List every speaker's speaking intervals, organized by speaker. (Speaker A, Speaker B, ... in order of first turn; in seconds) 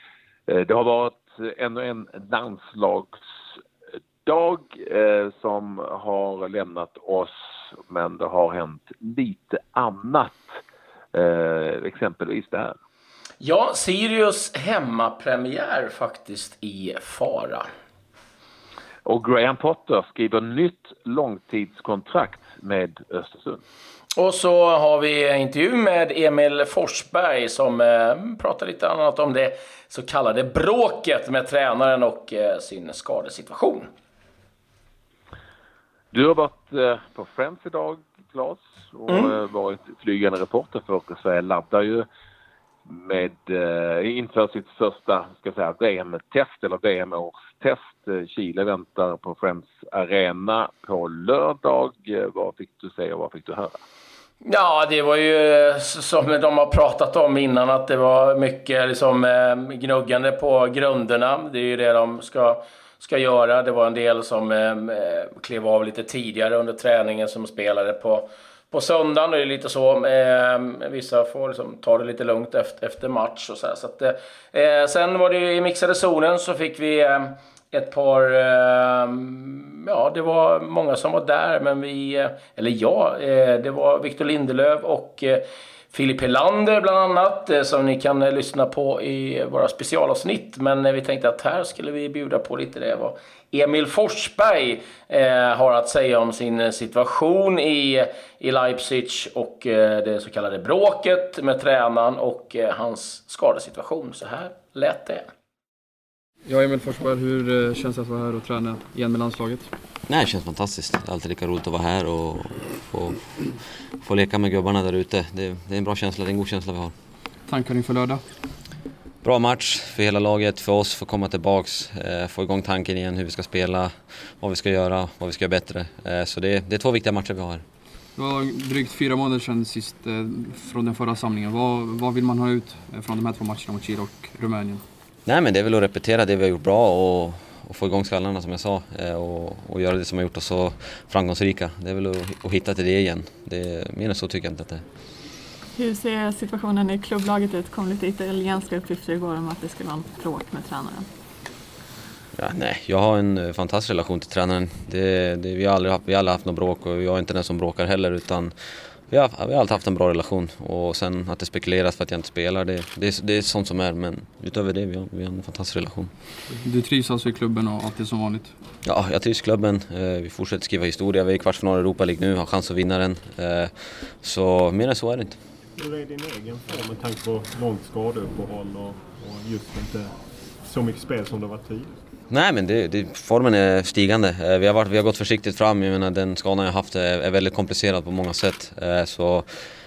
Speaker A: 0.5-3.2, 4.2-7.3, 7.9-10.4, 11.1-12.8, 19.1-23.6, 36.1-42.0, 42.9-53.8
Speaker B: 13.4-17.7, 24.2-33.9, 39.1-39.3, 54.4-105.3
Speaker C: 106.5-109.7, 117.5-118.2, 128.2-134.8, 166.6-168.5
Speaker D: 110.1-113.5, 114.0-116.9, 119.2-127.6, 135.2-144.8, 152.4-158.5, 159.1-166.1, 168.8-175.4, 182.3-189.4
Speaker E: 145.8-151.1
Speaker F: 175.8-180.1, 180.6-181.9